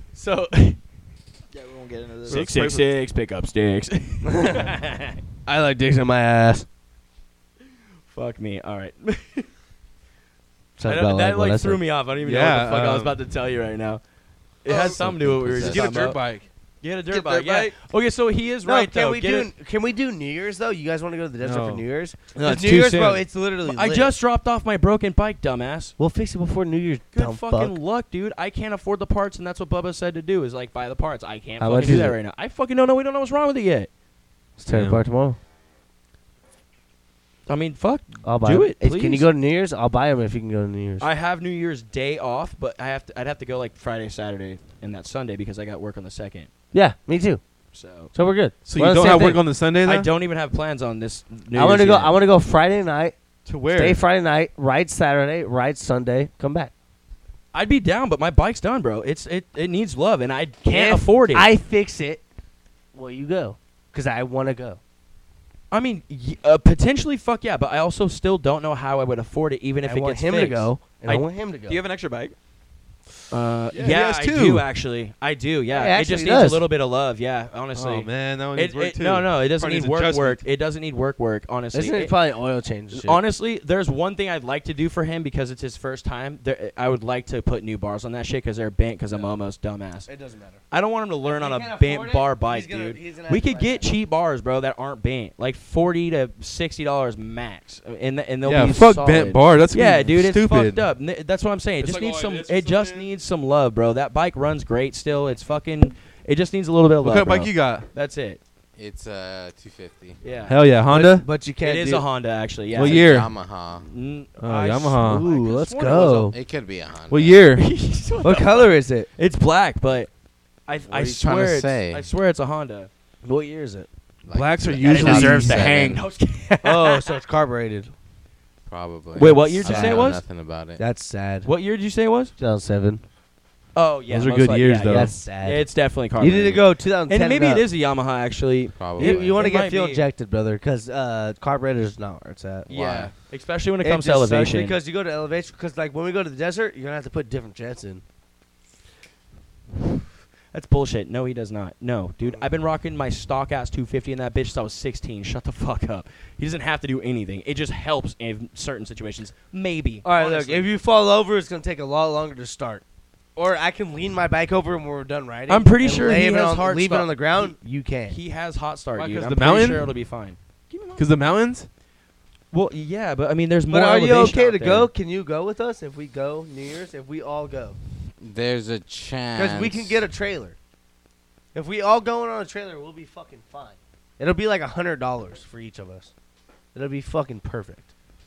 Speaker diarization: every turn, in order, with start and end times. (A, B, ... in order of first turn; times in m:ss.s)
0:00.1-0:00.8 A
0:01.5-0:02.8 B
0:02.3-0:05.2 A
0:02.3-0:02.7 C
0:04.3-0:04.6 D
0:05.4-0:06.6 D
0:08.1-0:09.5 A
0:10.8-0:11.8 D
0:10.8-0:14.0 A
0:12.2-0:13.2 C
0:14.6-0:16.2 A
0:14.7-0:16.5 C
0:14.7-0:16.1 E
0:16.8-0:19.5 A
0:17.1-0:17.8 B
0:18.6-0:24.1 D
0:21.4-0:21.8 C
0:22.4-0:26.0 A
0:26.0-0:27.8 D
0:27.1-0:33.9 A
0:31.6-0:32.2 D
0:34.6-0:35.4 D
0:34.7-0:35.0 C
0:37.5-0:39.3 A
0:38.2-0:41.1 D
0:41.0-0:46.5 A
0:46.7-0:47.4 D
0:47.7-0:48.1 A
0:48.1-0:49.4 D
0:48.6-0:50.1 C
0:49.0-0:52.2 A
0:51.5-0:53.2 D
0:53.4-0:54.0 C
0:53.7-0:56.7 D
0:57.5-1:01.5 A
1:00.6-1:02.2 D
1:02.9-1:04.8 D
1:05.7-1:11.3 A
1:09.8-1:11.8 D
1:11.7-1:12.4 B
1:13.3-1:22.2 A
1:13.7-1:14.7 C
1:15.7-1:16.6 D
1:17.7-1:20.4 C
1:21.7-1:23.2 D
1:22.9-1:30.1 A
1:30.1-1:30.6 D
1:30.7-1:48.4 A
1:31.2-1:33.9 D
1:38.4-1:40.8 C
1:41.8-1:43.1 C
1:47.0-1:47.9 C
1:48.8-1:50.2 E
1:50.2-1:50.6 A
1:50.5-1:51.3 C
1:50.9-1:52.1 D
1:51.6-1:53.3 A
1:52.7-1:53.3 C
1:52.8-1:53.9 E
1:53.8-1:56.3 A
1:54.4-1:55.3 C
1:55.0-1:56.4 D
1:56.3-1:57.4 E
1:57.1-1:57.7 C
1:57.6-2:00.1 A
1:58.2-1:59.1 D
2:00.7-2:02.9 A
2:00.9-2:02.1 E
2:03.2-2:03.9 D
2:04.3-2:06.1 E
2:04.3-2:05.6 C
2:04.8-2:07.1 A
2:06.6-2:07.9 D
2:08.7-2:10.8 E
2:09.2-2:10.2 A
2:09.6-2:10.2 D
2:10.8-2:11.5 D
2:11.4-2:12.3 A
2:12.4-2:13.0 D
2:13.7-2:20.1 A
2:14.1-2:15.1 C
2:14.9-2:17.6 D
2:18.8-2:19.4 E
2:19.0-2:22.7 D
2:22.7-2:23.1 E
2:22.7-2:24.8 A
2:23.8-2:28.0 D
2:30.5-2:40.6 A
2:40.0-2:42.8 D
2:40.2-2:40.6 C
2:43.4-2:48.2 D
2:45.5-2:47.6 A
2:48.1-2:51.1 A
2:49.0-2:49.9 C
2:51.0-2:51.7 C
2:52.5-2:54.9 A
2:53.7-2:57.8 D
2:58.2-3:00.1 E
2:59.4-3:00.6 D
3:01.5-3:06.1 D
3:06.7-3:07.9 D